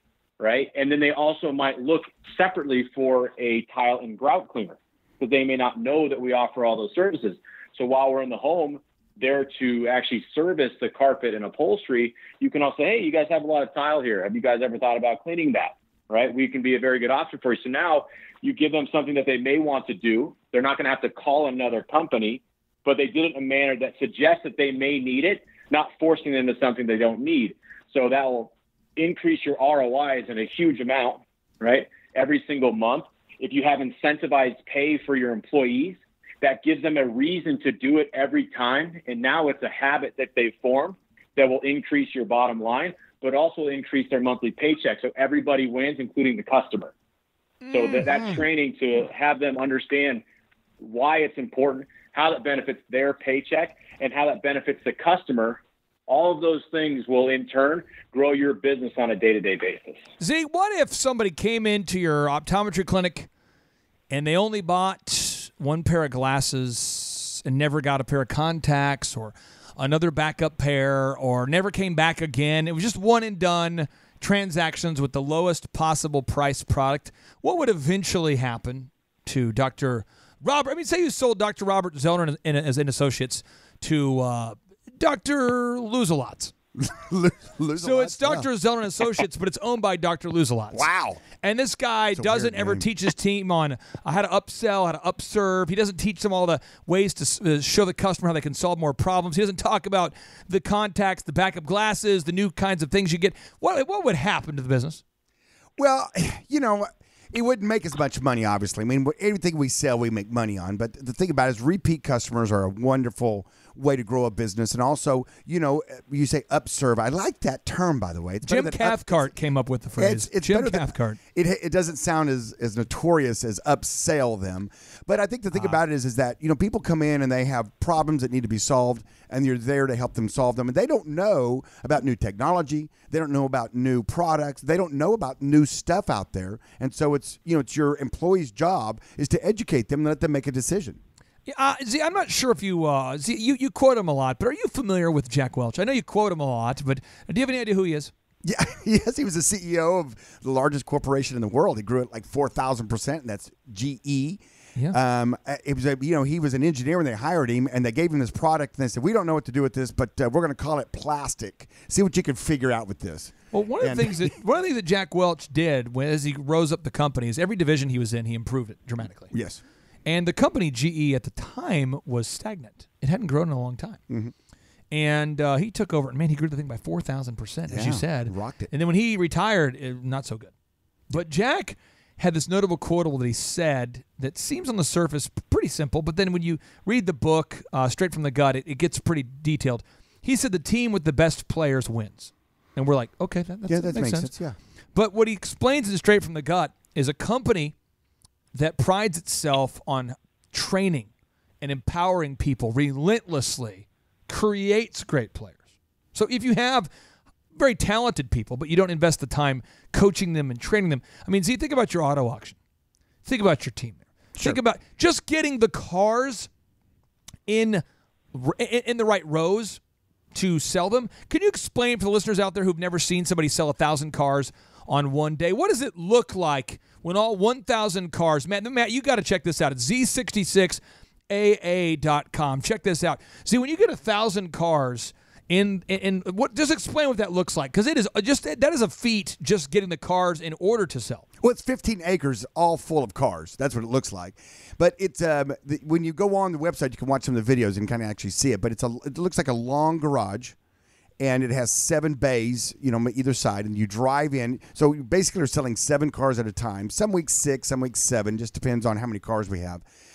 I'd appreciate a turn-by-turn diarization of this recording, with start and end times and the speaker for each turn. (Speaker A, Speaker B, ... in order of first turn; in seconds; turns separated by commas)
Speaker A: 0.4-46.9, Speaker A: 47.7-50.2, Speaker B: 48.0-48.4, Speaker A: 50.8-60.0, Speaker C: 60.2-63.3, Speaker C: 64.1-86.5, Speaker B: 86.8-88.5, Speaker C: 87.8-105.0, Speaker B: 90.7-91.2, Speaker B: 92.2-92.9, Speaker B: 105.8-119.3, Speaker C: 118.5-121.2, Speaker B: 120.0-141.0, Speaker C: 125.5-125.8, Speaker C: 141.5-148.1, Speaker B: 148.4-164.3, Speaker C: 163.5-169.3, Speaker B: 169.3-169.6, Speaker C: 170.1-174.0, Speaker C: 174.9-180.5, Speaker B: 177.7-178.7, Speaker C: 181.1-194.3, Speaker B: 193.7-194.6, Speaker C: 194.9-197.8, Speaker C: 198.5-201.1, Speaker C: 201.6-205.6, Speaker C: 206.1-206.9, Speaker C: 207.6-212.6, Speaker C: 213.2-216.5, Speaker C: 217.5-219.8, Speaker C: 220.3-241.2, Speaker B: 241.4-250.6, Speaker B: 251.2-259.8